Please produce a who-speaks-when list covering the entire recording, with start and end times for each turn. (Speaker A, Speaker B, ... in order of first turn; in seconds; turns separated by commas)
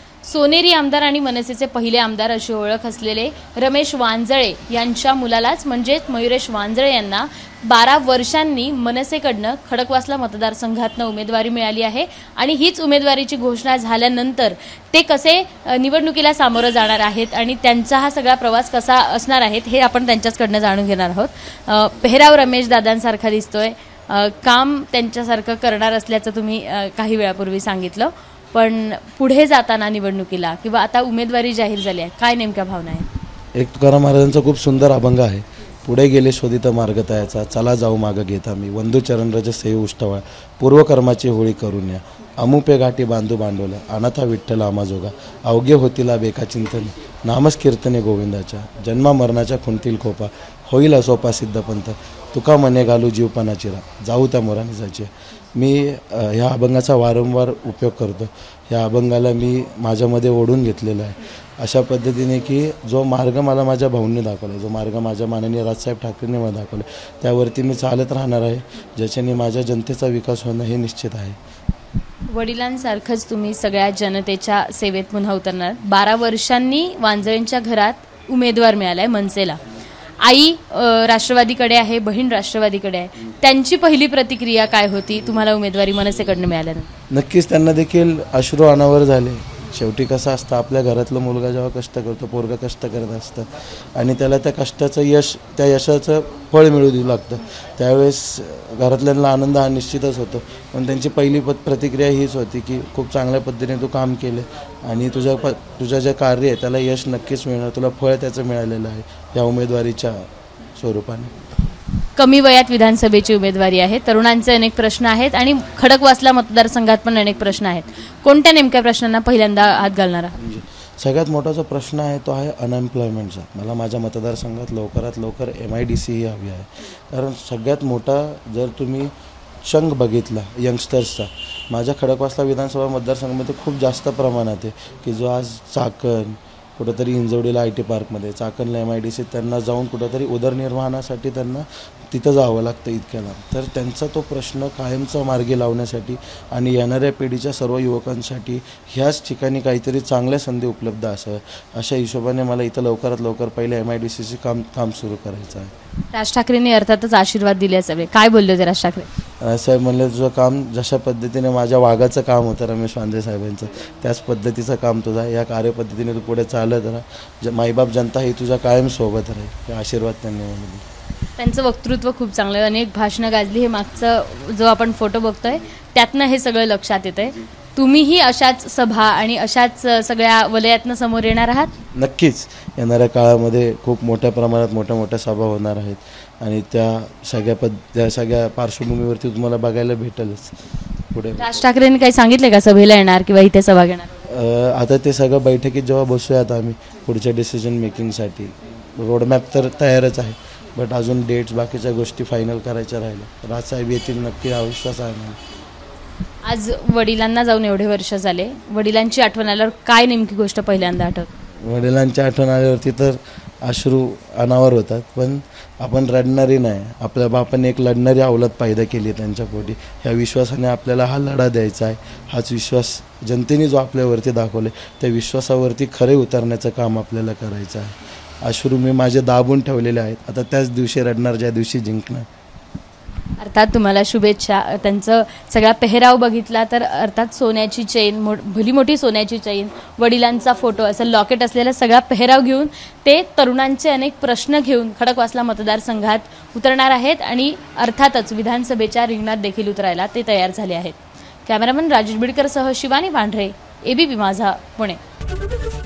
Speaker A: 0.2-33.1, Speaker B: 33.5-71.4, Speaker A: 72.3-79.6, Speaker A: 80.2-86.9, Speaker B: 87.1-111.3, Speaker A: 112.2-120.4, Speaker B: 120.4-129.1, Speaker B: 129.6-155.7, Speaker A: 156.1-159.1, Speaker B: 159.4-170.8, Speaker A: 171.4-181.7, Speaker B: 181.9-190.6, Speaker B: 191.1-191.6, Speaker A: 191.4-194.1, Speaker B: 194.2-205.4, Speaker A: 206.4-211.3, Speaker B: 211.6-232.3, Speaker A: 233.4-255.0